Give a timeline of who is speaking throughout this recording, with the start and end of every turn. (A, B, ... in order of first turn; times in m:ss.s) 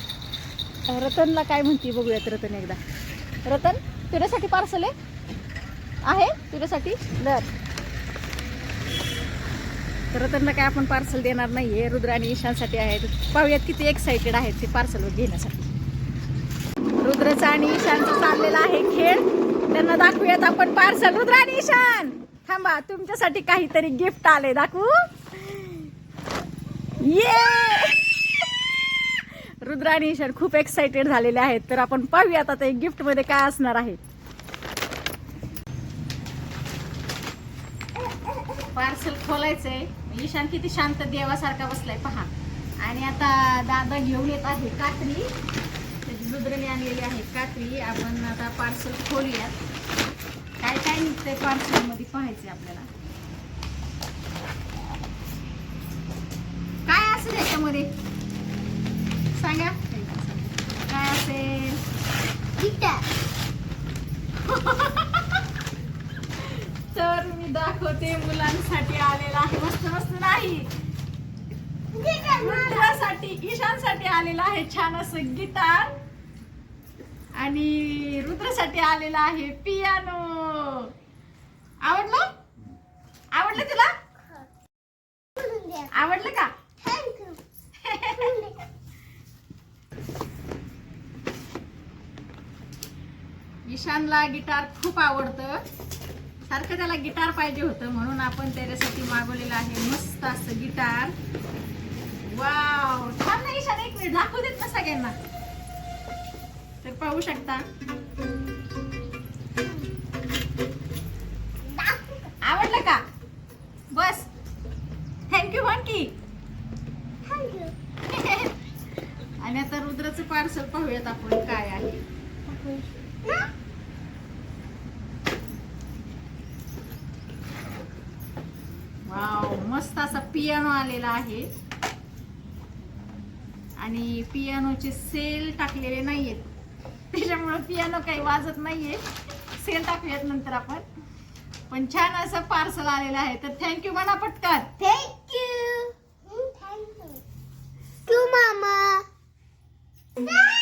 0:00.9-0:02.8 A
0:03.4-0:04.9 A
0:06.0-0:07.5 A
0:10.1-0:15.7 A
0:17.0-0:25.9 A
0:27.0-0:28.6 A
0:29.1-0:34.0 A
0:38.5-0:45.3 A
0:46.0-0:49.6 A
0:50.6-0:52.9 A
0:56.8-0:57.9 A
0:59.3-1:01.8 A
1:02.6-1:03.1 B
1:04.4-1:05.4 A
1:06.4-1:10.7 A
1:11.9-1:13.0 B
1:12.3-1:15.9 A
1:17.4-1:20.9 A
1:21.8-1:22.3 A
1:23.3-1:23.9 A
1:25.4-1:25.9 B
1:25.9-1:26.5 A
1:26.8-1:27.4 B
1:27.8-1:28.5 A
1:28.2-1:28.6 B
1:33.7-1:35.6 A
1:36.5-1:41.1 A
1:42.2-1:45.2 A
1:46.8-1:47.6 A
1:51.7-1:52.0 B
1:52.4-1:53.0 A
1:53.9-1:54.3 A
1:55.3-1:56.1 A
1:57.2-1:57.7 B
1:58.1-1:58.5 A
1:59.4-2:02.0 A
2:02.5-2:03.5 B
2:09.0-2:11.5 A
2:13.8-2:16.5 A
2:17.1-2:19.0 A
2:19.6-2:20.8 A
2:21.7-2:24.7 A
2:24.8-2:27.2 B
2:28.1-2:29.0 B